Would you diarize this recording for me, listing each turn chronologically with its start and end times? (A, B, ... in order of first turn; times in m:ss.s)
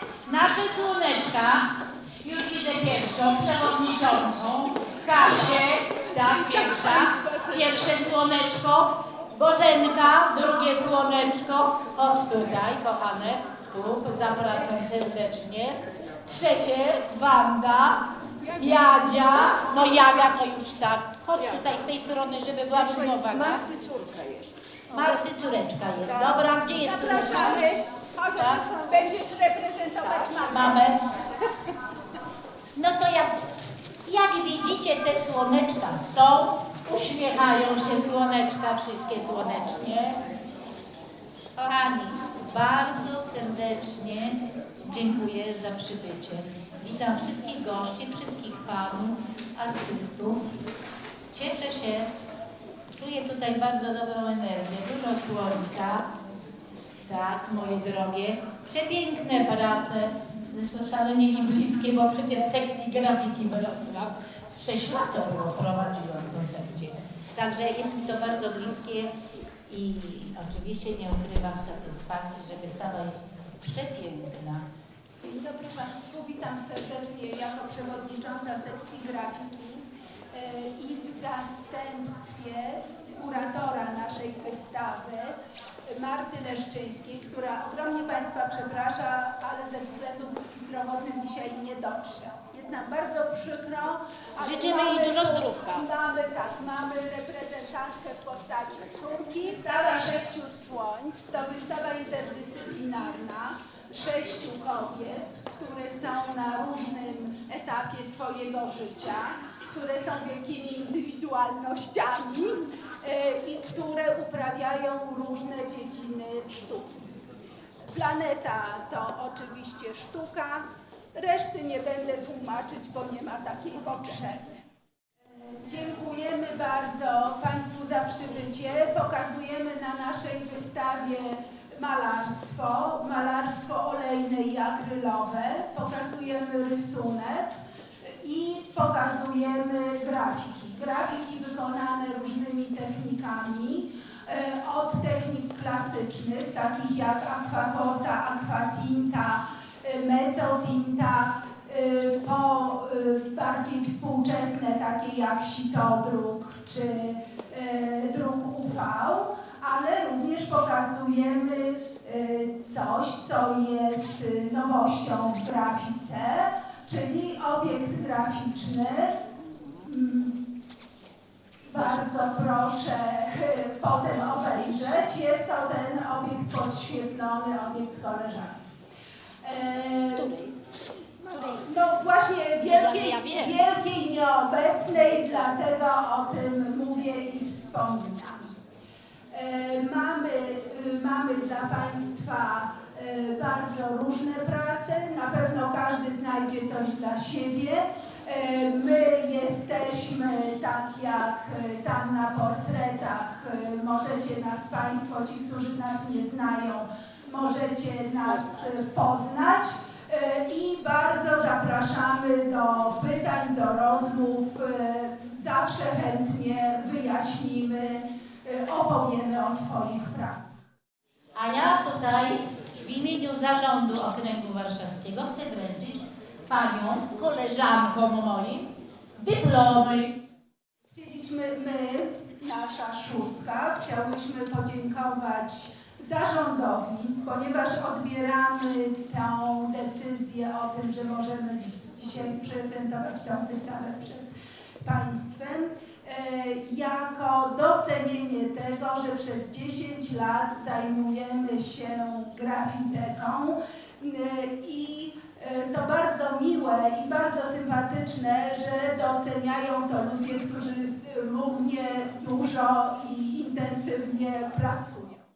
0:00.2-0:01.7 A
0:02.2-0:23.7 A
0:06.3-0:07.9 B
0:23.8-0:24.2 B
0:24.9-0:27.7 A
0:26.2-0:31.1 B
0:28.3-0:28.6 A
0:30.5-0:31.0 A
0:32.7-0:33.4 A
0:34.0-0:40.2 A
0:41.6-0:50.6 A
0:51.3-0:52.1 A
0:52.9-0:56.1 A
0:57.0-1:09.1 A
1:09.7-1:14.6 A
1:15.2-1:57.0 B
1:34.4-1:35.8 A
1:57.9-2:04.6 B
2:05.4-2:49.2 B
2:49.8-2:50.4 B
2:51.7-2:58.6 B
2:59.4-3:00.3 B
3:00.2-3:00.6 A
3:01.2-3:08.6 B
3:02.6-3:03.6 A
3:09.3-3:40.5 B
3:41.3-3:50.2 A
3:50.9-4:25.2 B